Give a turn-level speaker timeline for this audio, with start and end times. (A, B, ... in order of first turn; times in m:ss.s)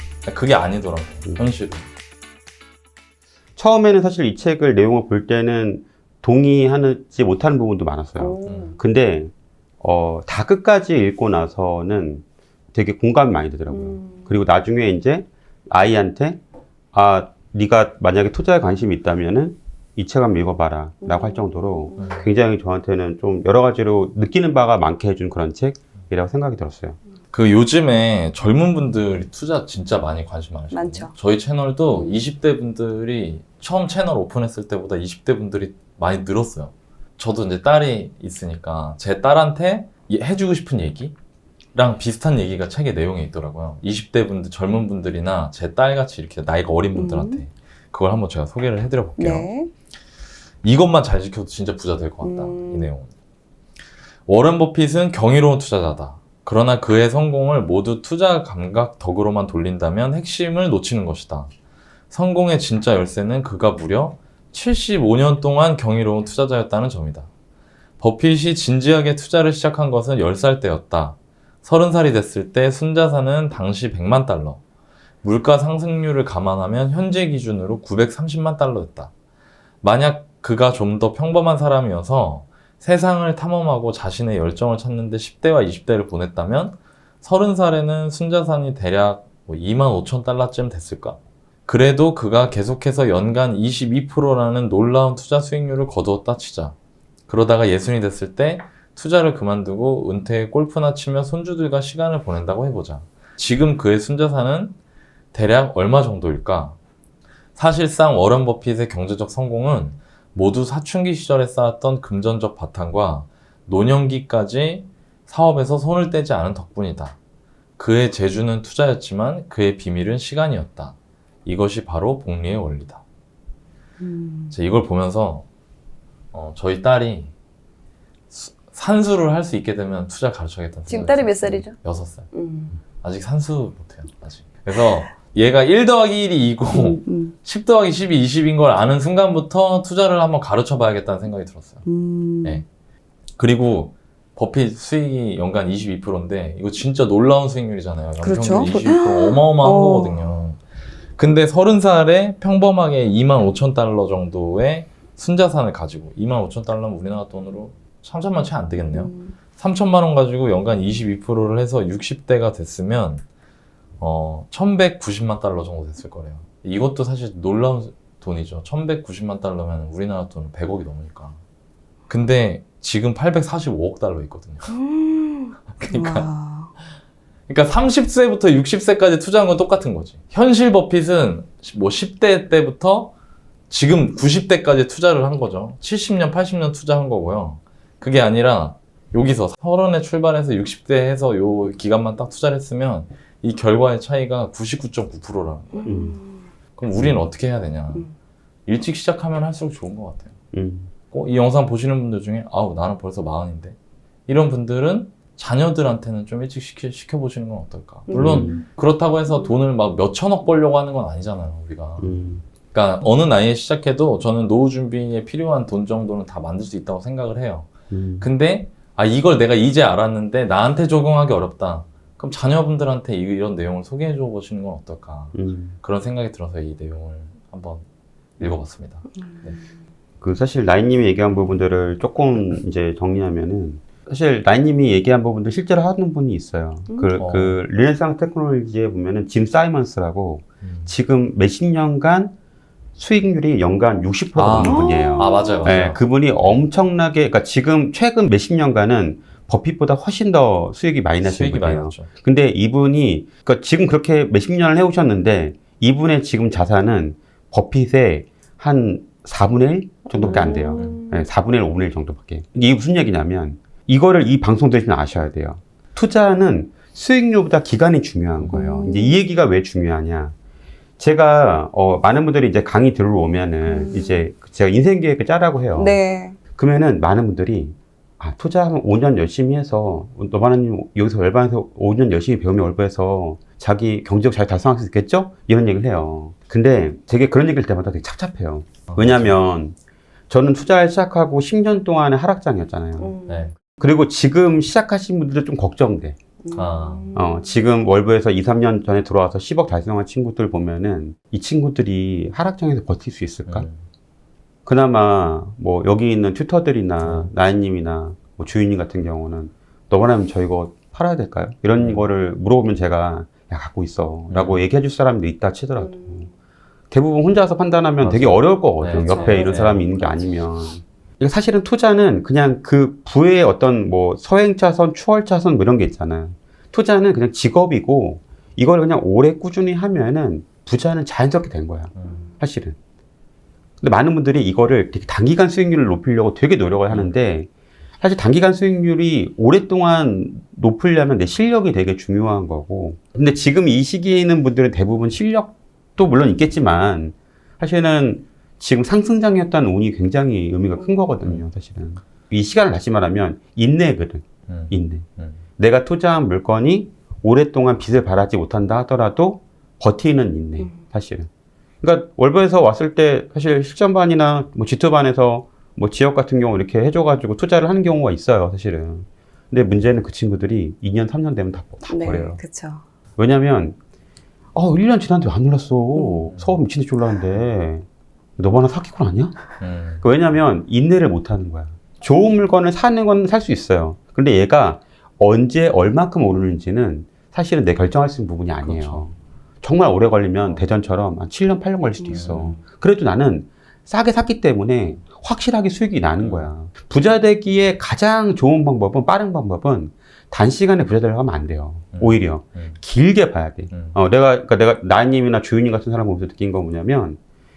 0:00.3-0:01.9 A
0:03.6-0:16.4 B
0:08.2-0:08.8 C
0:08.5-0:08.8 A
0:13.7-0:14.3 C
0:16.9-0:27.0 B
0:21.0-0:22.2 C
0:22.0-0:22.2 A
0:27.3-0:41.1 A
0:30.7-0:31.1 C
0:41.8-0:49.5 A
0:47.0-0:47.4 C
0:49.2-0:49.7 C
0:50.6-0:53.1 A
0:52.2-0:52.9 C
0:54.3-1:01.5 A
1:02.1-1:07.3 A
1:08.0-1:14.6 A
1:15.2-1:19.1 A
1:19.8-1:36.8 A
1:37.3-1:44.8 A
1:45.3-1:46.8 A
1:47.6-1:57.2 A
1:57.8-2:01.0 A
2:01.5-2:03.0 A
2:04.0-2:04.6 C
2:04.5-2:05.4 A
2:06.3-2:07.3 A
2:08.3-2:12.3 A
2:10.9-2:11.8 C
2:12.3-2:12.8 C
2:12.8-2:21.8 A
2:16.7-2:17.3 C
2:21.8-2:22.6 C
2:23.4-2:30.6 A
2:28.2-2:30.2 C
2:31.2-2:43.2 A
2:38.9-2:39.4 C
2:44.0-2:51.4 A
2:52.1-2:54.8 A
2:54.7-2:56.7 C
2:55.7-2:56.3 A
2:57.5-3:03.1 A
3:03.7-3:16.1 A
3:15.8-3:16.3 C
3:15.8-3:16.2 B
3:16.8-3:18.1 A
3:18.7-3:20.3 A
3:20.5-3:20.9 B
3:21.1-3:23.8 A
3:24.3-3:32.1 A
3:28.1-3:28.6 C
3:28.1-3:28.6 B
3:32.0-3:32.4 B
3:32.7-3:47.8 A
3:37.9-3:38.3 B
3:45.3-3:45.8 B
3:48.4-3:49.6 A
3:50.2-4:02.3 B
3:57.2-3:57.6 A
4:00.6-4:00.9 A
4:03.0-4:30.3 B
4:04.4-4:06.6 A
4:04.6-4:05.8 C
4:11.2-4:12.1 A
4:20.2-4:21.2 C
4:20.2-4:21.0 A
4:28.5-4:29.2 C
4:31.0-4:36.0 B
4:33.7-4:34.2 C
4:35.7-4:36.4 C
4:36.6-4:49.8 B
4:48.9-4:49.4 A
4:50.3-4:53.1 B
4:53.0-4:53.5 C
4:53.3-4:53.6 A
4:53.8-4:56.2 B
4:56.4-4:57.6 C
4:56.5-4:57.1 A
4:57.1-5:03.7 B
5:03.5-5:03.8 A
5:04.7-5:16.3 B
5:07.0-5:07.3 A
5:11.8-5:12.0 A
5:14.3-5:14.6 A
5:15.8-5:16.2 C
5:16.9-5:32.8 B
5:18.0-5:19.9 A
5:18.9-5:19.6 C
5:32.0-5:32.2 A
5:33.8-5:37.5 B
5:38.0-5:55.1 B
5:54.5-5:55.4 A
5:55.6-6:01.3 B
6:01.8-6:12.4 B
6:11.9-6:12.8 C
6:13.2-6:13.8 B
6:14.6-6:17.8 B
6:16.0-6:16.2 C
6:16.3-6:16.6 A
6:18.4-6:19.4 B
6:19.6-6:20.0 A
6:20.0-6:47.2 B
6:28.6-6:29.0 A
6:32.1-6:32.6 A
6:36.2-6:36.5 A
6:42.0-6:42.8 A
6:43.7-6:44.0 A